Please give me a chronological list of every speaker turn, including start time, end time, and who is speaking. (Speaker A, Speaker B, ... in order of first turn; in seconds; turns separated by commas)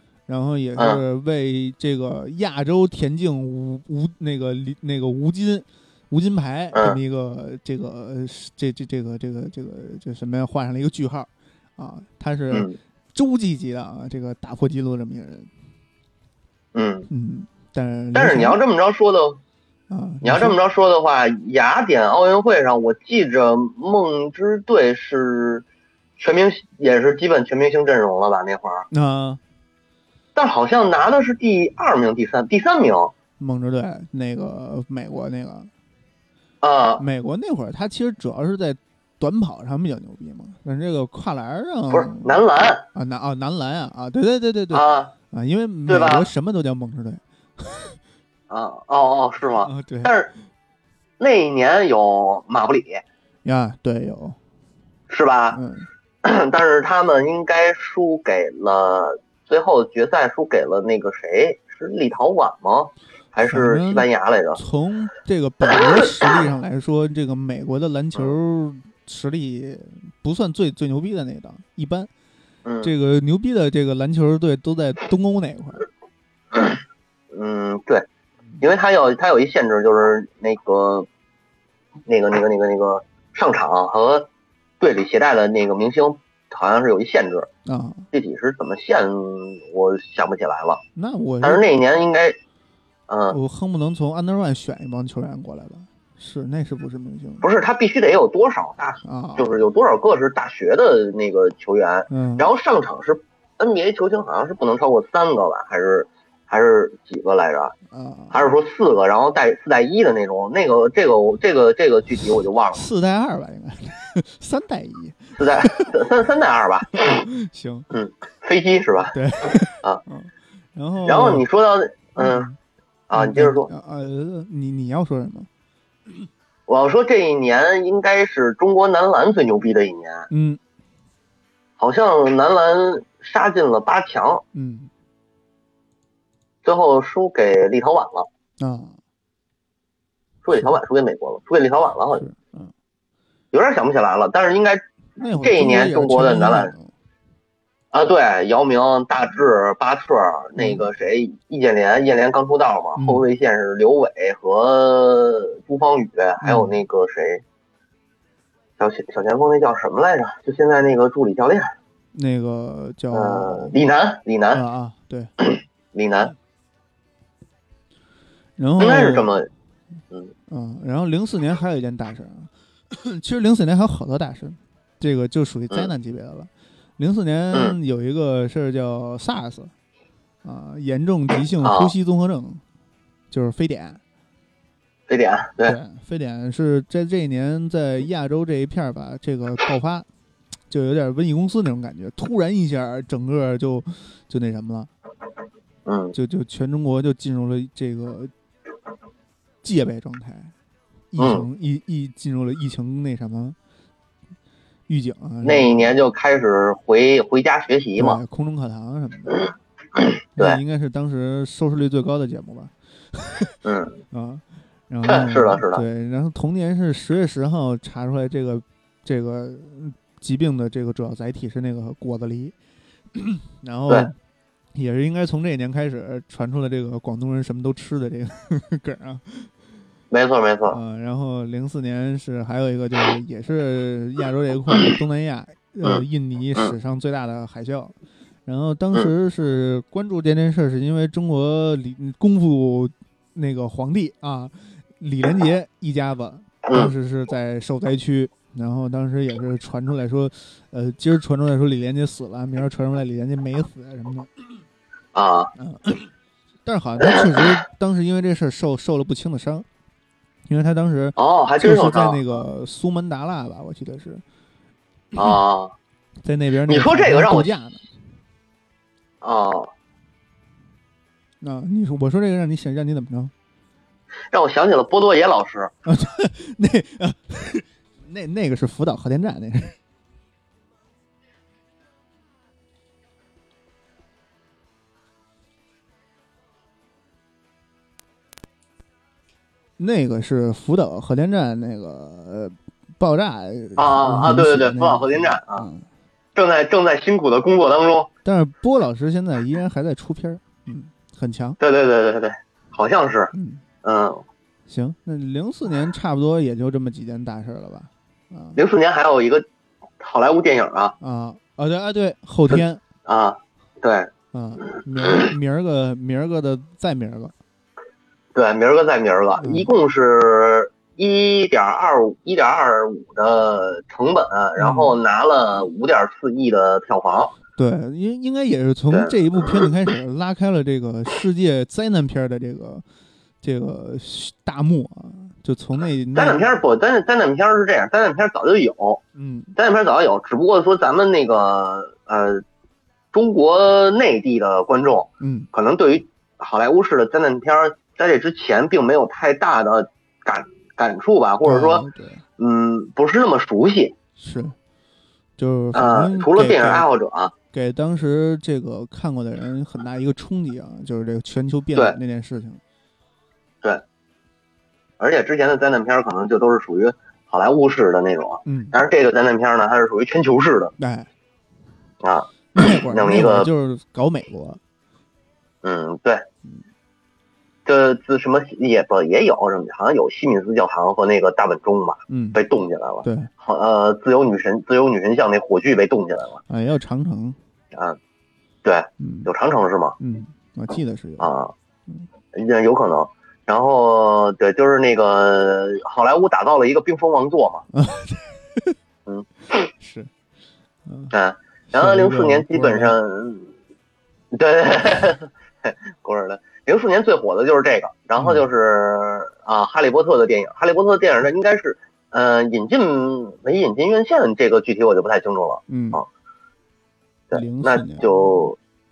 Speaker A: 0.3-15.5, Speaker B: 12.5-12.8, Speaker B: 16.7-17.1, Speaker A: 17.1-18.6, Speaker B: 18.1-19.4, Speaker A: 19.9-20.6, Speaker B: 20.2-25.6, Speaker B: 26.2-28.9, Speaker A: 28.9-29.4, Speaker B: 30.4-33.1, Speaker A: 33.4-35.7, Speaker B: 36.6-37.0, Speaker A: 37.0-42.4, Speaker B: 41.9-42.9, Speaker A: 42.9-48.0, Speaker B: 44.7-45.1, Speaker B: 45.9-46.3, Speaker B: 48.5-50.3, Speaker A: 49.6-50.1, Speaker B: 51.2-53.0, Speaker A: 53.5-54.4, Speaker B: 55.1-55.6, Speaker A: 55.5-55.9, Speaker B: 56.2-64.6, Speaker A: 63.4-72.1, Speaker B: 72.7-72.9, Speaker A: 72.8-75.8, Speaker B: 77.3-78.1, Speaker B: 78.6-81.1, Speaker B: 82.1-84.3, Speaker B: 84.8-87.5, Speaker A: 87.7-88.1, Speaker B: 88.1-90.8, Speaker A: 91.0-91.7, Speaker B: 91.4-92.4, Speaker B: 93.1-93.4, Speaker A: 93.3-97.5, Speaker B: 97.4-107.7, Speaker A: 99.0-99.5, Speaker A: 102.1-102.5, Speaker A: 107.9-108.5, Speaker B: 108.3-112.9, Speaker A: 112.7-116.0, Speaker B: 115.4-117.2, Speaker A: 116.9-117.9, Speaker B: 117.9-119.2, Speaker A: 119.1-121.5, Speaker B: 121.1-122.5, Speaker A: 122.2-122.6, Speaker B: 123.1-123.7, Speaker A: 123.1-125.5, Speaker B: 126.7-130.3, Speaker A: 130.3-130.6, Speaker B: 131.8-134.4, Speaker A: 134.5-134.9, Speaker B: 136.6-138.3, Speaker A: 138.6-139.0, Speaker B: 140.4-142.2, Speaker A: 140.5-140.8, Speaker A: 142.1-142.7, Speaker B: 143.5-144.8, Speaker A: 145.2-146.9, Speaker B: 145.4-146.7, Speaker B: 147.9-157.4, Speaker A: 150.6-150.8, Speaker A: 153.0-153.2, Speaker A: 156.4-156.8, Speaker B: 158.8-161.7, Speaker A: 162.2-163.8, Speaker B: 163.1-164.6, Speaker A: 164.5-165.3, Speaker B: 165.4-166.3, Speaker A: 168.6-169.3, Speaker B: 168.8-169.5, Speaker A: 170.5-179.7, Speaker A: 180.4-182.6, Speaker B: 181.6-181.9, Speaker A: 183.3-184.0, Speaker B: 185.1-185.8, Speaker A: 185.7-190.1, Speaker A: 190.7-194.9, Speaker B: 195.9-196.2, Speaker A: 196.1-198.3, Speaker A: 199.6-200.5, Speaker A: 201.1-203.6, Speaker B: 201.2-201.5, Speaker A: 204.9-205.9, Speaker B: 205.4-208.2, Speaker A: 208.0-209.5, Speaker B: 210.0-210.6, Speaker A: 210.4-213.6, Speaker B: 213.7-214.0, Speaker A: 214.1-222.6, Speaker B: 215.1-215.8, Speaker A: 223.2-224.1, Speaker A: 224.8-229.5, Speaker B: 230.1-230.8, Speaker A: 230.7-237.9, Speaker A: 238.5-254.3, Speaker B: 246.7-246.9, Speaker B: 255.2-255.5, Speaker A: 255.6-256.1, Speaker A: 256.6-259.7, Speaker A: 260.5-264.2, Speaker B: 261.2-262.4, Speaker B: 265.2-265.7, Speaker A: 266.2-267.9, Speaker B: 266.7-267.6, Speaker B: 269.2-269.7, Speaker A: 271.4-273.3, Speaker B: 274.3-275.7, Speaker A: 275.9-279.8, Speaker A: 289.8-295.9, Speaker B: 293.8-295.7, Speaker B: 296.4-298.1, Speaker A: 298.2-301.6, Speaker B: 301.6-303.3, Speaker A: 303.3-303.6, Speaker B: 303.8-304.2, Speaker A: 304.7-308.6, Speaker B: 308.6-309.4, Speaker B: 310.0-310.9, Speaker A: 311.0-312.8, Speaker B: 312.5-314.1, Speaker A: 314.3-317.3, Speaker B: 318.4-327.4, Speaker A: 319.4-319.7, Speaker A: 324.6-324.9, Speaker A: 327.6-332.8, Speaker B: 328.9-329.5, Speaker A: 333.4-336.5, Speaker B: 336.1-339.0, Speaker A: 339.2-339.6, Speaker B: 339.6-342.4, Speaker B: 343.1-351.9, Speaker A: 345.2-345.5, Speaker A: 351.4-352.2, Speaker B: 352.4-353.9, Speaker A: 354.2-354.6, Speaker A: 355.4-356.9, Speaker B: 355.7-357.3, Speaker A: 357.5-362.6, Speaker B: 365.0-370.7, Speaker A: 368.4-368.8, Speaker A: 370.8-371.1, Speaker B: 372.0-373.5, Speaker A: 372.5-374.6, Speaker B: 375.6-376.2, Speaker B: 377.6-386.4, Speaker A: 382.1-382.4, Speaker A: 383.0-383.3, Speaker A: 386.5-387.4, Speaker B: 388.6-390.0, Speaker A: 389.0-389.3, Speaker A: 390.0-391.3, Speaker B: 391.2-391.5, Speaker B: 392.3-397.6, Speaker A: 397.7-398.8, Speaker A: 399.7-400.1, Speaker A: 400.9-401.1, Speaker B: 401.1-403.5, Speaker A: 401.7-403.0, Speaker B: 404.3-416.1, Speaker A: 408.2-408.4, Speaker A: 415.7-416.0, Speaker B: 417.3-418.6, Speaker A: 417.3-418.5